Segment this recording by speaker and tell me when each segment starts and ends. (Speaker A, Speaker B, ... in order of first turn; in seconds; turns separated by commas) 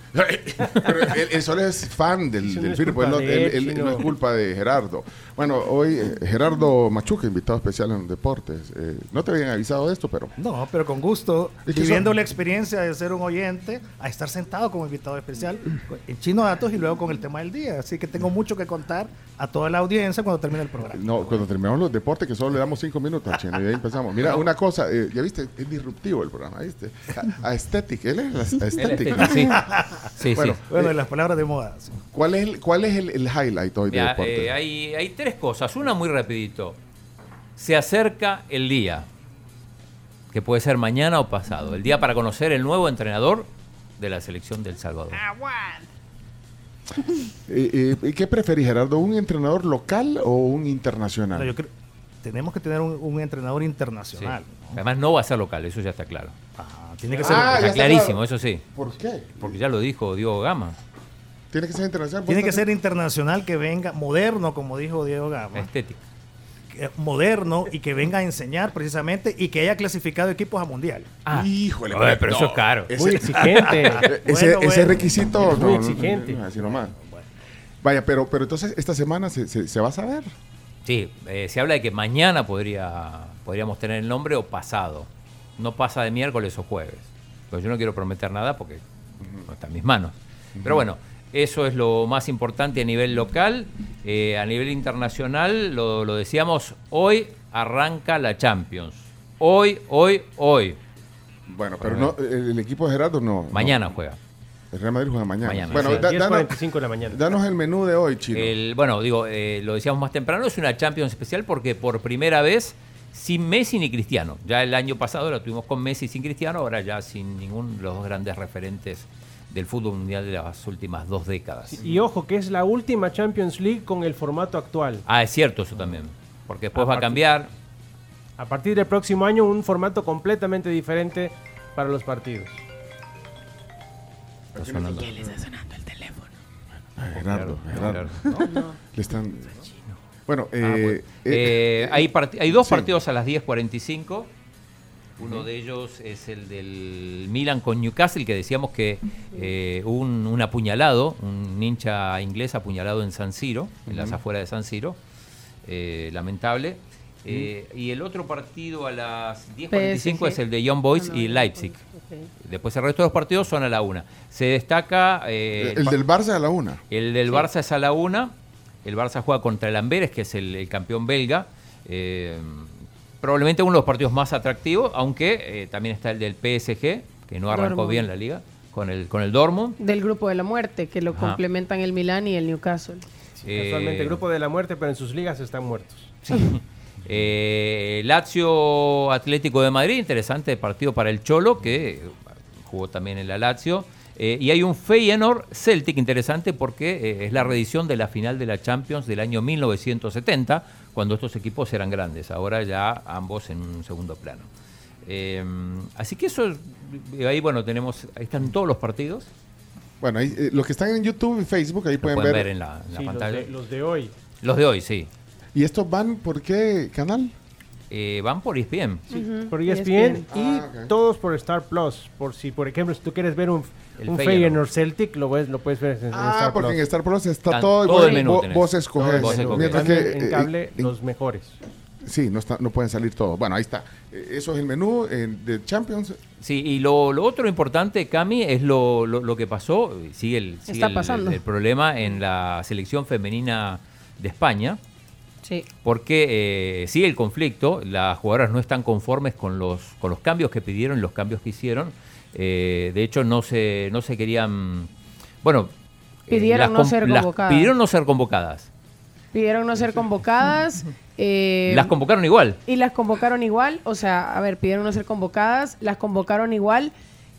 Speaker A: 0.1-10.3, Speaker B: 2.4-4.1, Speaker C: 10.4-21.0, Speaker A: 11.7-12.1, Speaker A: 20.9-29.6, Speaker D: 28.8-29.6, Speaker C: 29.3-30.0, Speaker D: 30.1-30.6, Speaker A: 30.3-30.9, Speaker C: 30.7-32.0, Speaker A: 32.1-34.5, Speaker D: 33.9-36.8, Speaker D: 37.5-39.0, Speaker D: 40.3-43.5, Speaker D: 44.0-45.2, Speaker C: 45.2-45.8, Speaker A: 47.5-51.5, Speaker C: 51.4-51.7, Speaker C: 52.2-54.8, Speaker D: 54.1-56.3, Speaker C: 56.6-57.9, Speaker D: 57.2-58.6, Speaker A: 57.2-59.5, Speaker D: 59.4-60.8, Speaker A: 61.5-62.7, Speaker C: 62.3-65.7, Speaker D: 65.5-66.0, Speaker C: 66.7-71.1, Speaker D: 71.2-72.9, Speaker A: 71.3-76.9, Speaker B: 72.9-76.7, Speaker C: 73.5-73.9, Speaker D: 73.6-74.1, Speaker C: 76.7-77.3, Speaker A: 77.8-80.3, Speaker D: 80.8-88.8, Speaker A: 89.2-89.5, Speaker D: 89.5-100.8, Speaker A: 90.6-90.9, Speaker A: 101.5-103.9, Speaker D: 101.8-102.1, Speaker D: 103.5-104.2, Speaker A: 104.7-108.5, Speaker D: 105.4-106.1, Speaker B: 105.7-107.2, Speaker D: 108.3-121.9, Speaker B: 121.7-125.0, Speaker D: 125.1-127.5, Speaker B: 126.7-127.2, Speaker B: 128.4-132.6, Speaker A: 134.5-135.4, Speaker D: 134.5-136.2, Speaker A: 136.9-139.6, Speaker D: 137.1-138.5, Speaker E: 138.5-138.7, Speaker A: 140.3-142.9, Speaker D: 140.6-144.3, Speaker D: 145.2-155.0, Speaker A: 145.2-145.4, Speaker A: 153.9-154.2, Speaker D: 155.7-161.7, Speaker E: 159.7-160.4, Speaker E: 160.9-162.3, Speaker D: 162.4-166.0, Speaker A: 165.6-166.8, Speaker D: 166.9-168.3, Speaker D: 168.8-179.8, Speaker E: 177.5-178.1, Speaker E: 179.8-183.0, Speaker D: 181.1-181.4, Speaker B: 183.4-186.1, Speaker D: 183.4-184.2, Speaker D: 186.3-204.5, Speaker D: 205.0-209.3, Speaker A: 210.0-212.5, Speaker D: 212.0-213.5, Speaker B: 212.9-214.1, Speaker D: 214.4-215.1, Speaker A: 215.5-217.3, Speaker D: 217.9-219.0, Speaker E: 219.1-220.3, Speaker B: 219.5-226.8, Speaker A: 220.3-220.9, Speaker D: 224.0-224.6, Speaker A: 226.1-230.9, Speaker D: 227.5-230.0, Speaker B: 228.9-231.6, Speaker A: 232.0-236.2, Speaker D: 236.4-244.8, Speaker E: 240.7-241.4, Speaker D: 245.8-254.9, Speaker D: 255.4-255.7, Speaker E: 256.3-257.7, Speaker D: 256.3-258.7, Speaker E: 259.3-261.9, Speaker D: 261.7-262.6, Speaker E: 262.6-266.9